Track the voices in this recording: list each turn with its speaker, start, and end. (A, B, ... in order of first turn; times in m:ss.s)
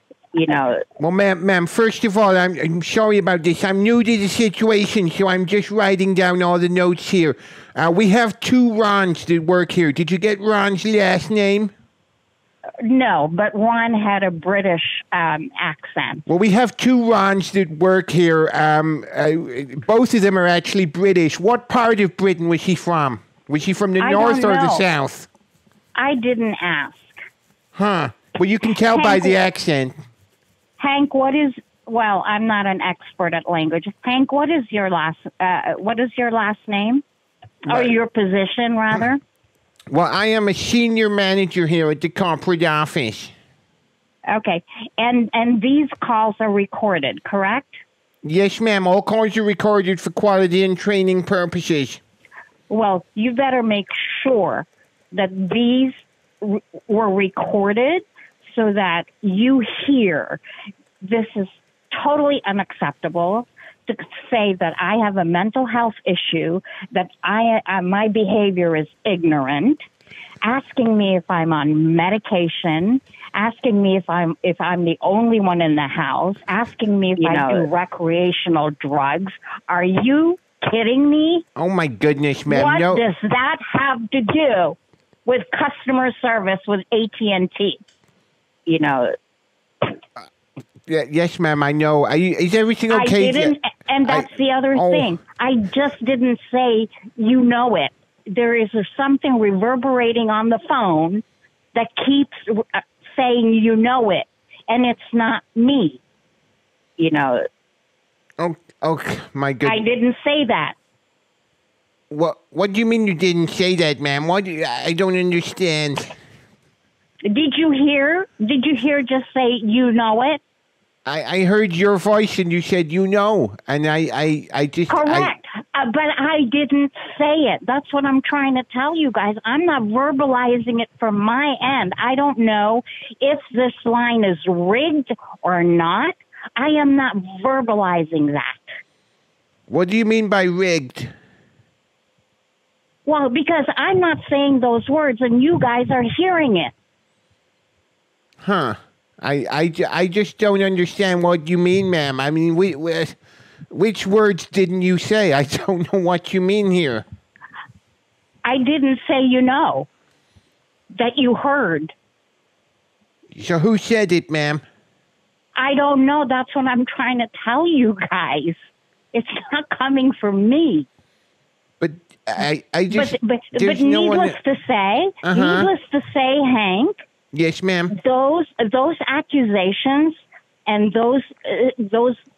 0:00.3-0:00.8 A
0:01.0-0:11.7 B
0:12.8-0:16.2 C
0:16.3-0:25.3 B
0:24.0-0:24.8 C
0:25.9-0:27.2 C
0:27.7-0:29.9 B
0:28.9-0:29.4 C
0:30.8-0:37.0 C
0:37.6-0:39.2 C
0:37.6-0:38.0 B
0:39.9-0:43.3 B
0:44.3-0:47.8 C
0:48.2-0:52.0 B
0:52.7-1:00.4 C
1:01.0-1:09.8 C
1:10.4-1:21.4 C
1:17.2-1:17.7 A
1:21.6-1:23.0 B
1:22.5-1:27.8 C
1:28.7-1:29.1 A
1:30.9-1:33.5 B
1:32.9-1:41.2 C
1:34.0-1:35.1 B
1:41.7-1:46.0 C
1:47.0-1:47.4 A
1:48.4-1:49.8 B
1:49.6-1:50.7 C
1:52.1-1:56.2 B
1:57.3-2:00.4 C
2:01.0-2:05.3 B
2:04.9-2:18.7 C
2:19.7-2:21.1 B
2:23.0-2:26.7 C
2:28.4-2:33.2 B
2:33.7-2:37.0 B
2:38.4-2:39.9 C
2:40.9-2:41.9 C
2:43.3-2:44.6 B
2:45.6-2:50.9 C
2:51.8-2:54.3 B
2:52.9-2:57.0 C
2:55.2-2:55.7 B
2:57.3-2:57.9 B
2:57.9-3:02.2 C